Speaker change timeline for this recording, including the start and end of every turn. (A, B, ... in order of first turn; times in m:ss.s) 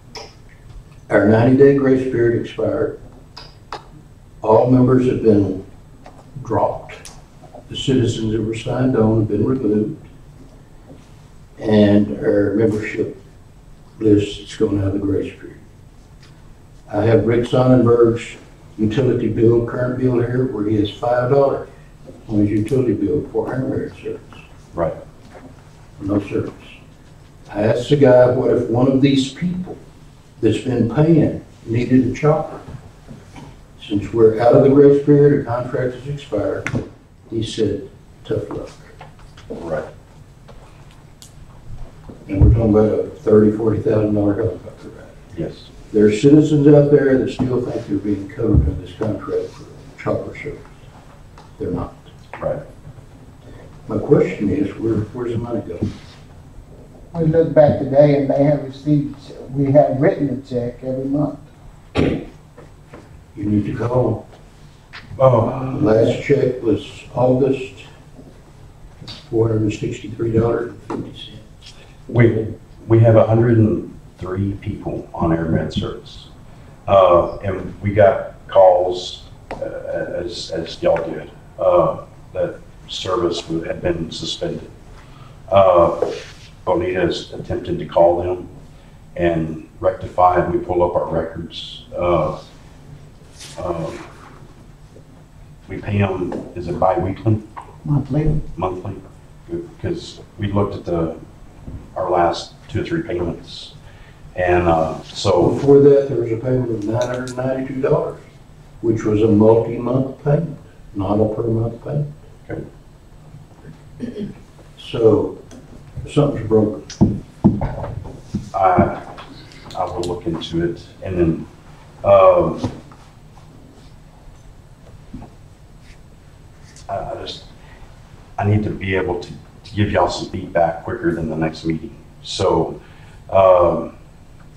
0:01.1-0:03.0 A
0:04.4-0:05.6 A
0:06.4-0:07.0 A
0:07.7-0:10.0 A
0:11.6-0:13.1 A
0:14.0-0:15.6 A
0:16.9-0:21.6 A
0:22.3-0:24.3 A
0:26.0-0:26.8 A
0:27.5-0:29.8 A
0:30.4-0:32.6 A
0:33.8-0:36.7 A
0:37.3-0:38.9 A
0:39.6-0:39.9 B
0:42.3-0:45.1 A
0:45.3-0:45.7 B
0:45.9-0:50.7 A
0:51.6-0:52.1 A
0:52.4-0:52.6 B
0:53.9-0:55.8 A
0:57.2-0:59.5 C
1:01.0-1:01.4 C
1:03.4-1:04.2 A
1:05.2-1:05.9 B
1:05.4-1:07.9 A
1:09.0-1:11.4 A
1:12.1-1:16.3 B
1:16.9-1:24.7 B
1:25.5-1:28.5 B
1:29.2-1:32.4 B
1:33.6-1:34.0 B
1:35.7-1:37.4 B
1:37.8-1:38.4 C
1:38.6-1:41.2 B
1:42.0-1:43.7 B
1:44.4-1:45.6 B
1:45.4-1:48.2 A
1:48.8-1:52.1 A
1:54.8-1:55.4 A
1:56.0-1:56.9 A
1:58.5-1:59.0 B
1:59.7-2:01.5 B
2:02.0-2:02.7 B
2:06.9-2:07.5 B
2:08.4-2:13.9 B